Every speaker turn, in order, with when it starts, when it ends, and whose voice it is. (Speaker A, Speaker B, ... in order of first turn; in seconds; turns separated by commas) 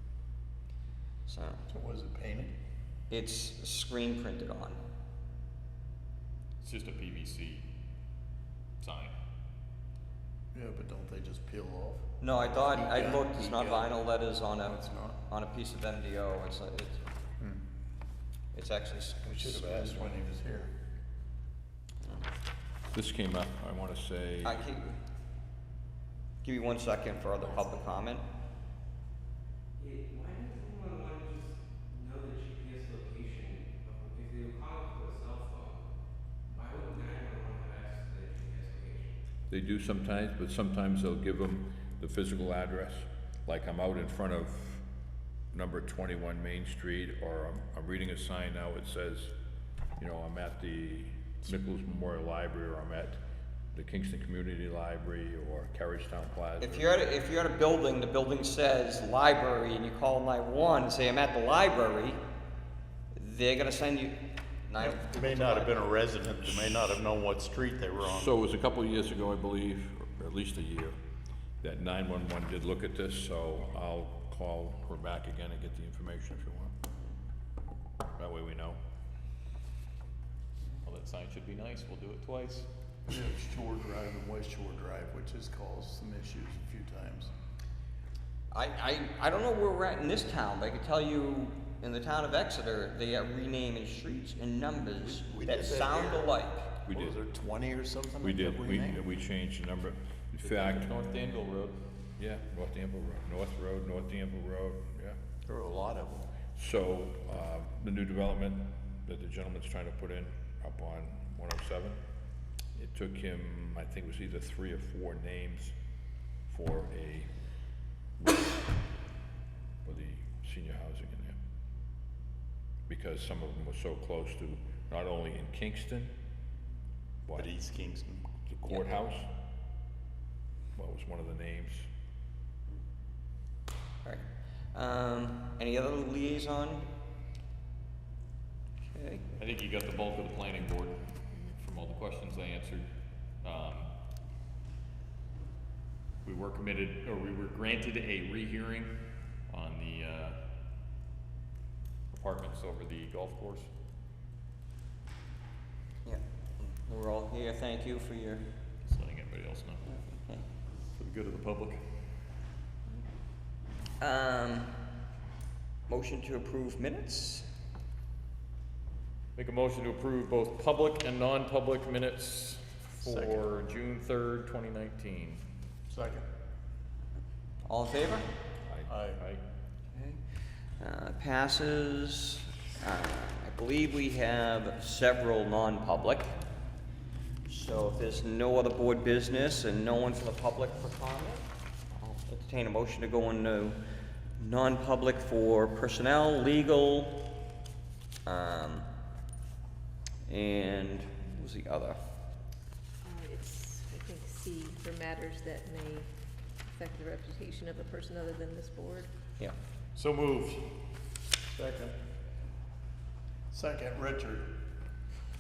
Speaker A: 1.3-1.6, Speaker B: 1.7-2.5, Speaker A: 3.1-4.8, Speaker C: 6.6-7.7, Speaker C: 8.8-9.1, Speaker B: 10.5-13.9, Speaker A: 12.2-17.1, Speaker B: 14.6-15.2, Speaker A: 18.5-19.9, Speaker B: 19.2-20.7, Speaker D: 22.9-24.6, Speaker A: 24.4-25.0, Speaker A: 26.4-28.2, Speaker E: 29.8-35.8, Speaker E: 36.5-39.1, Speaker D: 39.5-44.8, Speaker D: 45.5-49.3, Speaker D: 50.0-53.2, Speaker D: 53.7-56.9, Speaker A: 56.6-62.2, Speaker A: 63.1-65.8, Speaker B: 64.8-68.3, Speaker D: 66.5-66.9, Speaker D: 68.1-71.0, Speaker D: 71.6-76.7, Speaker D: 78.2-78.8, Speaker C: 80.8-82.7, Speaker B: 83.1-87.3, Speaker A: 88.5-96.6, Speaker B: 95.0-96.3, Speaker D: 96.8-97.2, Speaker B: 96.9-99.0, Speaker D: 98.2-100.9, Speaker C: 100.4-101.8, Speaker D: 102.2-105.2, Speaker B: 105.4-106.3, Speaker D: 106.5-112.0, Speaker D: 112.8-115.7, Speaker D: 116.5-117.3, Speaker D: 118.2-118.6, Speaker D: 119.8-121.4, Speaker D: 122.9-126.1, Speaker B: 127.3-128.3, Speaker D: 128.5-129.3, Speaker D: 130.8-131.9, Speaker A: 134.0-136.9, Speaker A: 138.9-139.2, Speaker C: 139.3-143.9, Speaker C: 146.2-150.4, Speaker C: 152.1-153.7, Speaker A: 156.0-158.5, Speaker C: 158.8-159.8, Speaker A: 159.8-160.4, Speaker C: 160.9-162.0, Speaker A: 164.0-164.8, Speaker A: 165.9-167.5, Speaker C: 169.3-175.4, Speaker B: 173.0-173.5, Speaker B: 175.9-176.3, Speaker A: 177.6-178.3, Speaker B: 178.9-179.2, Speaker C: 179.2-179.4, Speaker A: 179.9-180.2, Speaker A: 180.8-186.3, Speaker A: 187.5-193.8, Speaker A: 194.4-197.2, Speaker A: 198.2-198.9, Speaker A: 200.3-202.0, Speaker F: 203.1-206.1, Speaker F: 206.7-209.1, Speaker C: 209.9-210.7, Speaker B: 211.5-211.9, Speaker B: 213.5-214.5